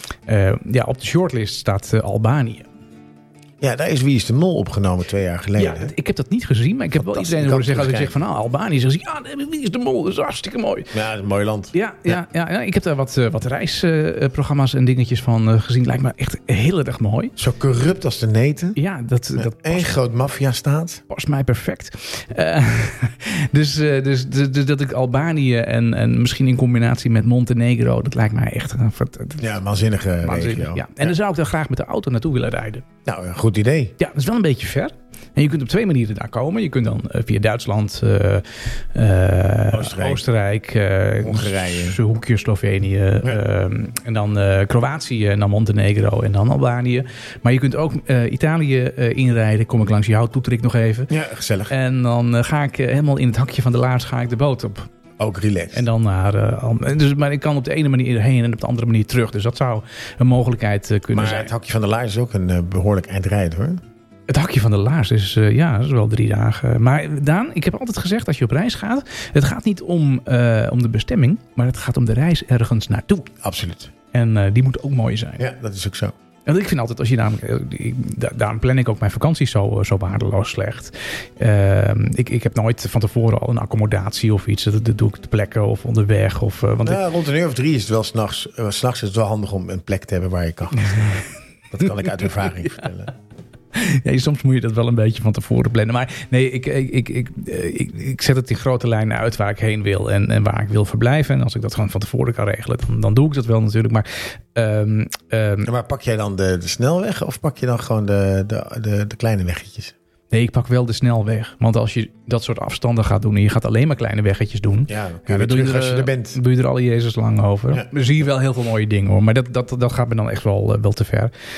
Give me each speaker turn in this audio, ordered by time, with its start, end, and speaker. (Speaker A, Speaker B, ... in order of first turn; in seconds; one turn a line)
Speaker A: 0.3-2.7
Speaker B: 3.6-5.9
Speaker A: 5.6-10.9
Speaker B: 7.0-8.2
Speaker B: 10.9-12.2
Speaker A: 11.7-17.4
Speaker B: 17.4-18.8
Speaker A: 18.8-20.0
Speaker B: 19.4-21.0
Speaker A: 21.1-29.6
Speaker B: 29.4-31.1
Speaker A: 30.2-32.8
Speaker B: 33.0-33.9
Speaker A: 34.0-51.1
Speaker B: 39.7-40.2
Speaker B: 41.2-42.0
Speaker B: 51.1-51.7
Speaker A: 51.7-54.9
Speaker B: 55.2-55.8
Speaker A: 55.7-61.5
Speaker B: 61.1-63.8
Speaker A: 64.3-73.3
Speaker B: 73.4-73.9
Speaker A: 74.1-75.5
Speaker B: 75.4-76.1
Speaker A: 76.5-87.0
Speaker B: 86.8-93.1
Speaker A: 90.8-91.2
Speaker A: 93.7-105.7
Speaker B: 105.6-109.9
Speaker A: 110.3-121.3
Speaker B: 114.9-116.4